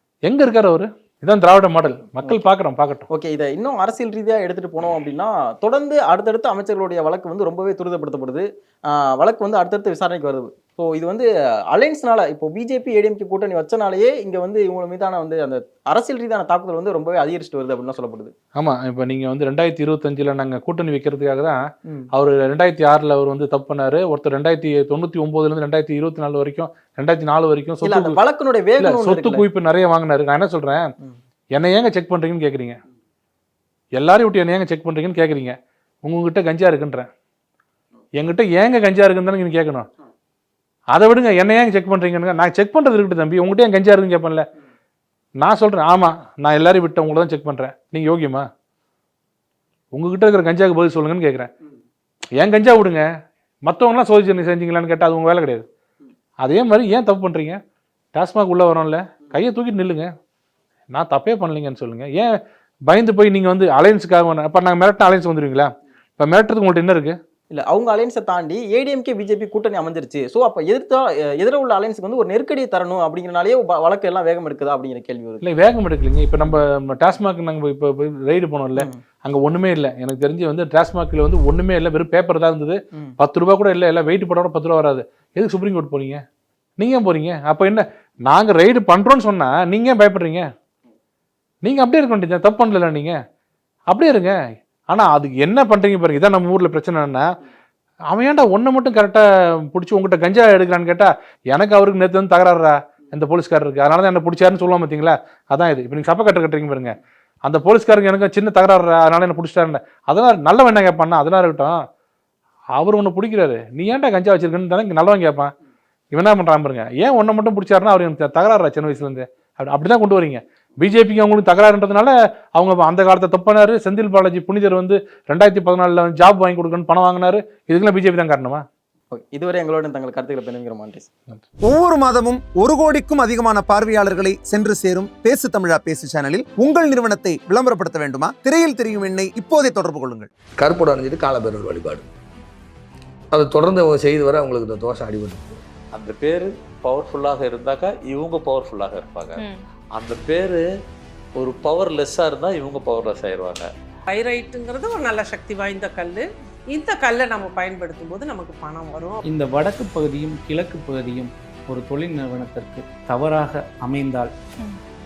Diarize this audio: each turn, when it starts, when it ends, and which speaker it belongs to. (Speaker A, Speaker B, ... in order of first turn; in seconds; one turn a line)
Speaker A: 0.3-3.1
Speaker B: 3.1-18.3
Speaker A: 18.6-21.6
Speaker A: 22.1-28.2
Speaker B: 27.8-29.4
Speaker A: 28.8-30.9
Speaker A: 31.6-32.8
Speaker A: 34.0-37.1
Speaker A: 38.2-39.9
Speaker A: 40.9-44.4
Speaker A: 45.4-48.5
Speaker A: 49.9-51.5
Speaker A: 52.4-53.0
Speaker A: 53.6-55.6
Speaker A: 56.4-57.6
Speaker A: 58.1-60.1
Speaker A: 60.9-62.3
Speaker A: 62.9-67.2
Speaker B: 67.5-75.4
Speaker A: 75.4-86.2
Speaker A: 86.8-90.5
Speaker A: 91.6-93.2
Speaker A: 93.9-94.3
Speaker A: 94.9-97.3
Speaker A: 98.1-111.8
Speaker A: 112.8-115.5
Speaker A: 116.1-128.6
Speaker B: 129.1-131.1
Speaker C: 131.6-140.3
Speaker D: 140.6-142.1
Speaker D: 143.3-145.6
Speaker E: 145.9-150.6
Speaker E: 151.4-153.7
Speaker F: 154.1-159.2
Speaker G: 159.2-164.3